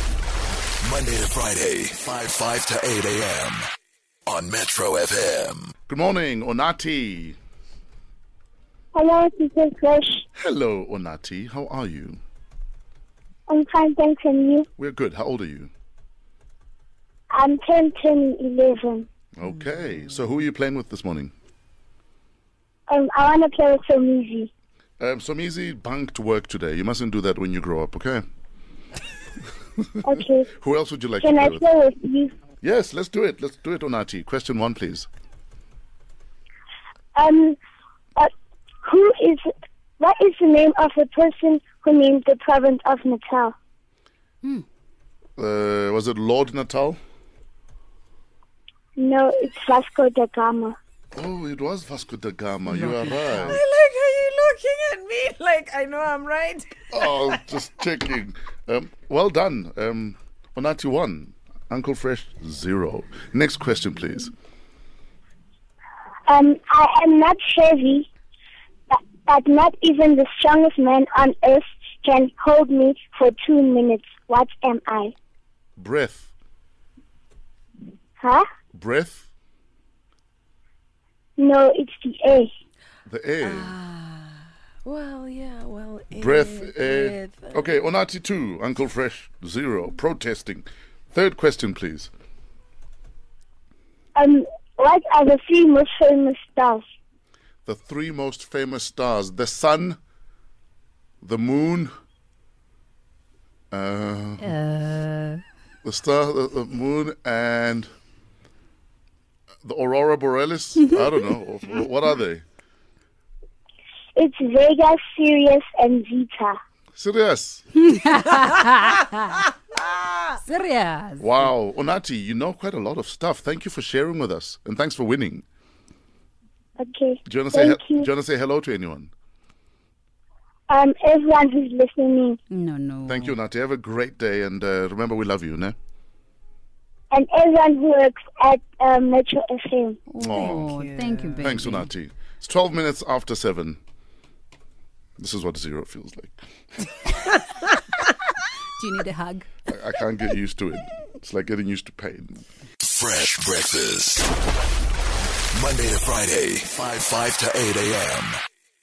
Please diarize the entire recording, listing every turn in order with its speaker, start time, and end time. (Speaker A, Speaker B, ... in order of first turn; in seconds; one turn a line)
Speaker A: 0.8-3.7
Speaker A: 4.2-5.7
Speaker B: 5.9-7.4
Speaker C: 8.9-10.2
Speaker B: 10.3-12.2
Speaker C: 13.5-14.7
Speaker B: 14.8-15.7
Speaker C: 17.3-19.1
Speaker B: 19.4-21.3
Speaker C: 22.9-24.5
Speaker B: 25.0-28.2
Speaker C: 30.0-30.5
Speaker B: 30.5-31.6
Speaker C: 31.2-32.3
Speaker B: 32.6-35.1
Speaker C: 37.1-37.6
Speaker C: 38.8-39.4
Speaker C: 40.0-43.5
Speaker B: 45.4-47.0
Speaker C: 49.0-50.8
Speaker B: 51.1-53.6
Speaker D: 52.7-57.3
Speaker B: 56.9-64.3
Speaker C: 66.3-68.1
Speaker C: 68.9-75.1
Speaker B: 75.8-76.3
Speaker C: 78.2-78.5
Speaker B: 78.7-79.3
Speaker C: 81.4-82.5
Speaker B: 83.0-83.7
Speaker D: 83.4-84.3
Speaker D: 84.8-87.7
Speaker B: 86.2-92.1
Speaker C: 94.1-96.8
Speaker B: 97.7-100.0
Speaker B: 101.2-101.9
Speaker B: 103.7-104.5
Speaker E: 104.4-105.4
Speaker B: 105.8-107.9
Speaker B: 109.6-112.4
Speaker C: 114.2-116.6
Speaker B: 116.9-117.6
Speaker E: 117.9-119.2
Speaker E: 120.4-121.4
Speaker B: 121.2-125.4
Speaker C: 126.8-128.1
Speaker B: 127.2-129.1
Speaker C: 130.7-132.4
Speaker E: 132.5-133.3
Speaker B: 133.1-135.7
Speaker C: 137.1-140.0
Speaker E: 140.1-141.9
Speaker B: 140.2-140.7
Speaker D: 140.4-141.5
Speaker B: 141.4-143.8
Speaker B: 145.2-146.3
Speaker E: 148.8-149.5
Speaker B: 149.7-152.4
Speaker A: 152.8-154.3
Speaker A: 155.5-158.4